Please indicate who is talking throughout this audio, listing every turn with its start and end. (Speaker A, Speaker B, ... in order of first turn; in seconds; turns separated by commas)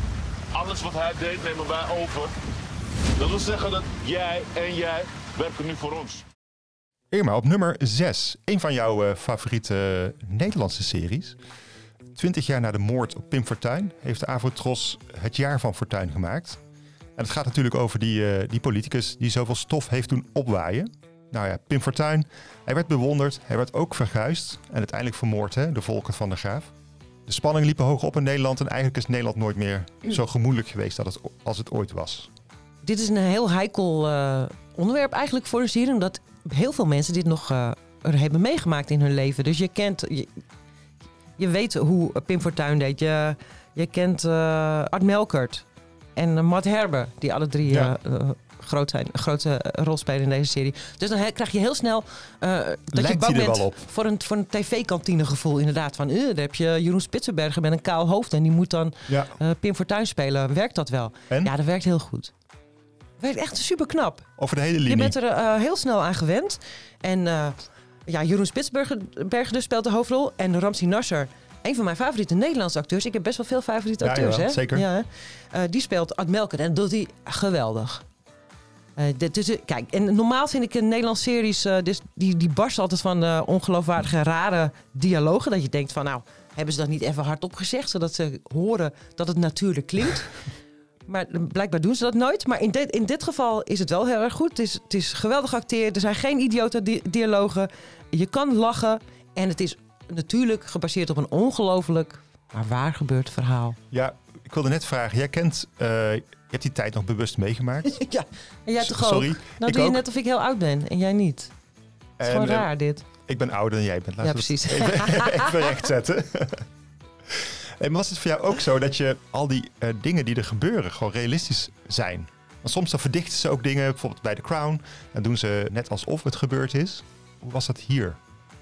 Speaker A: 0.5-2.3, Speaker A: 3.2-6.2, Speaker B: 7.1-11.4, Speaker B: 12.2-16.6, Speaker B: 17.2-26.7, Speaker B: 27.3-32.3, Speaker C: 32.8-40.4, Speaker C: 41.4-45.6, Speaker C: 46.2-62.3, Speaker B: 47.7-47.9, Speaker B: 52.9-53.8, Speaker B: 59.1-59.4, Speaker C: 63.2-64.3, Speaker B: 64.4-65.1, Speaker C: 64.8-78.0, Speaker B: 74.0-74.9, Speaker C: 79.0-90.3, Speaker C: 91.1-103.8, Speaker B: 103.9-108.0, Speaker C: 107.9-111.5, Speaker B: 108.8-110.0, Speaker B: 112.2-112.7, Speaker C: 112.2-113.0, Speaker B: 113.3-116.7, Speaker C: 114.2-115.9, Speaker B: 117.3-128.2